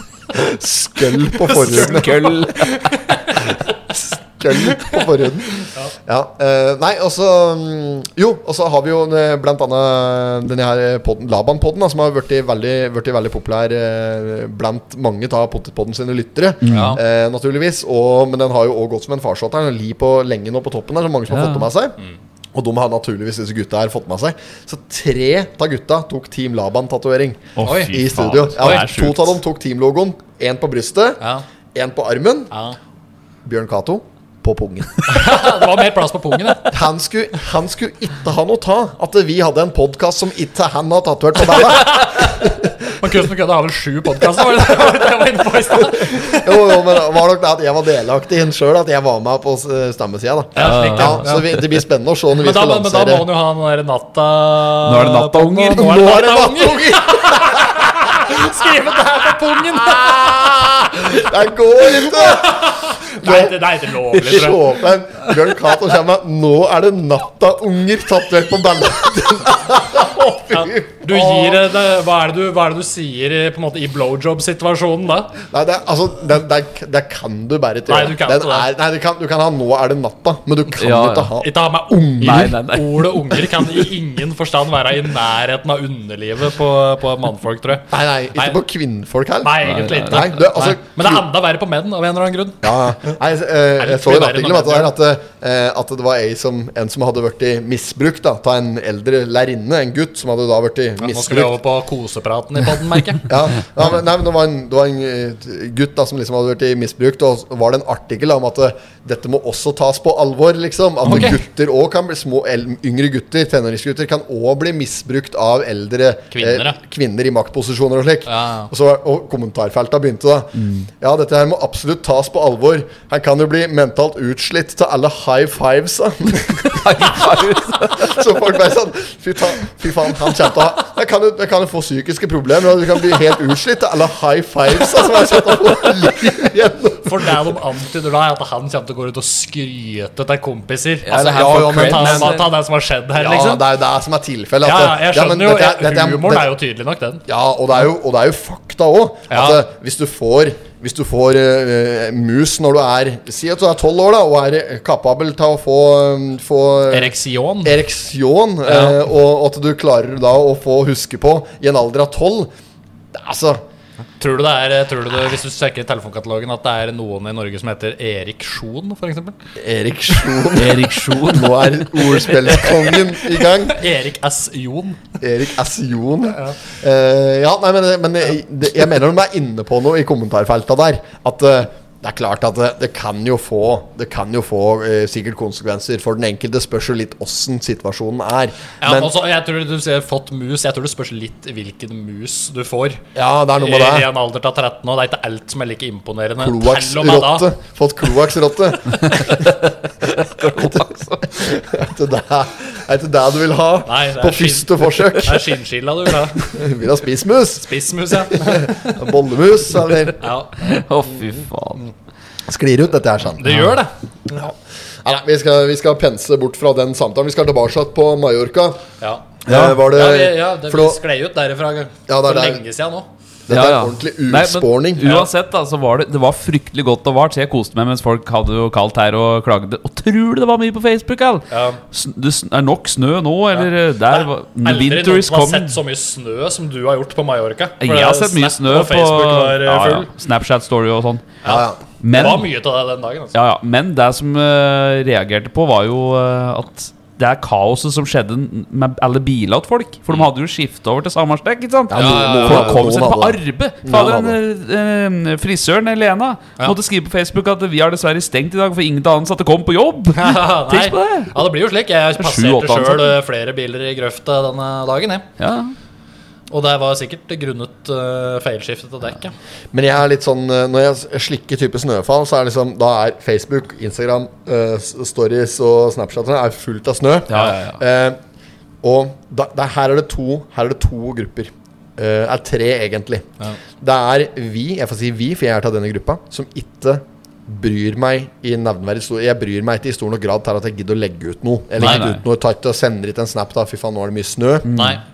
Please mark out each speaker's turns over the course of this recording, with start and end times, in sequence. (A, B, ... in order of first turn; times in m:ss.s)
0:00.3-0:02.3 A
0:01.4-0:03.5 B
0:01.8-0:02.9 C
0:03.5-0:22.0 A
0:05.6-0:05.9 B
0:16.6-0:17.0 C
0:16.7-0:17.0 B
0:21.3-0:21.7 C
0:22.5-0:31.2 A
0:27.6-0:29.4 C
0:27.6-0:28.0 B
0:31.7-0:32.5 A
0:32.5-0:32.8 B
0:33.4-0:35.3 A
0:35.1-0:36.7 B
0:36.7-0:42.9 A
0:41.5-0:46.8 B
0:46.0-0:53.3 A
0:50.6-0:51.6 B
0:50.6-0:51.3 C
0:52.4-1:01.2 B
0:54.8-0:55.9 C
0:55.7-0:58.5 A
0:59.7-1:11.7 A
1:01.9-1:05.6 B
1:10.5-1:15.4 B
1:15.5-1:22.5 A
1:17.9-1:18.7 B
1:20.8-1:21.3 C
1:21.4-1:28.6 B
1:22.2-1:23.2 C
1:27.9-1:31.2 A
1:29.4-1:33.1 B
1:29.7-1:30.2 C
1:32.6-1:41.6 A
1:33.8-1:34.9 B
1:41.0-1:43.3 B
1:43.3-2:07.2 A
1:51.0-1:51.4 B
1:56.3-1:56.8 B
1:58.3-1:58.7 B
2:06.7-2:08.1 C
2:07.8-2:17.4 A
2:17.0-2:23.6 B
2:21.0-2:22.5 C
2:21.1-2:22.4 A
2:23.2-2:26.5 A
2:24.6-2:27.2 B
2:27.3-2:42.5 A
2:29.3-2:29.6 B
2:36.9-2:37.8 B
2:38.6-2:39.0 B
2:43.1-2:43.6 A
2:44.2-2:49.3 B
2:49.6-2:53.8 A
2:50.5-2:52.3 C
2:53.6-2:55.2 B
2:55.2-3:09.1 A
2:56.3-2:56.6 B
3:08.8-3:13.0 B
3:13.2-3:14.1 A
3:13.6-3:17.5 B
3:16.4-3:25.6 A
3:20.3-3:21.2 C
3:23.8-3:26.5 B
3:26.4-3:30.3 A
3:27.6-3:29.1 B
3:30.2-3:30.8 B
3:30.6-3:31.8 C
3:32.5-3:33.5 A
3:33.4-3:33.9 B
3:34.3-3:38.8 A
3:39.0-3:43.1 B
3:39.4-3:41.0 A
3:42.1-3:42.6 A
3:43.5-3:45.1 A
3:43.5-3:55.7 C
3:45.0-3:45.3 B
3:51.5-3:51.8 B
3:53.5-4:00.1 B
3:57.8-4:01.2 C
4:01.4-4:03.4 B
4:01.4-4:02.4 A
4:02.0-4:02.4 C
4:03.3-4:21.3 C
4:11.9-4:14.4 A
4:11.9-4:12.9 B
4:20.2-4:25.3 B
4:22.2-4:23.1 C
4:25.4-4:25.7 C
4:26.5-4:29.3 B
4:29.7-4:38.2 A
4:37.3-4:37.8 C
4:38.8-4:43.3 A
4:43.8-4:54.8 A
4:51.8-4:52.2 C
4:51.8-4:52.1 B
4:54.6-4:55.0 C
4:54.7-4:55.0 B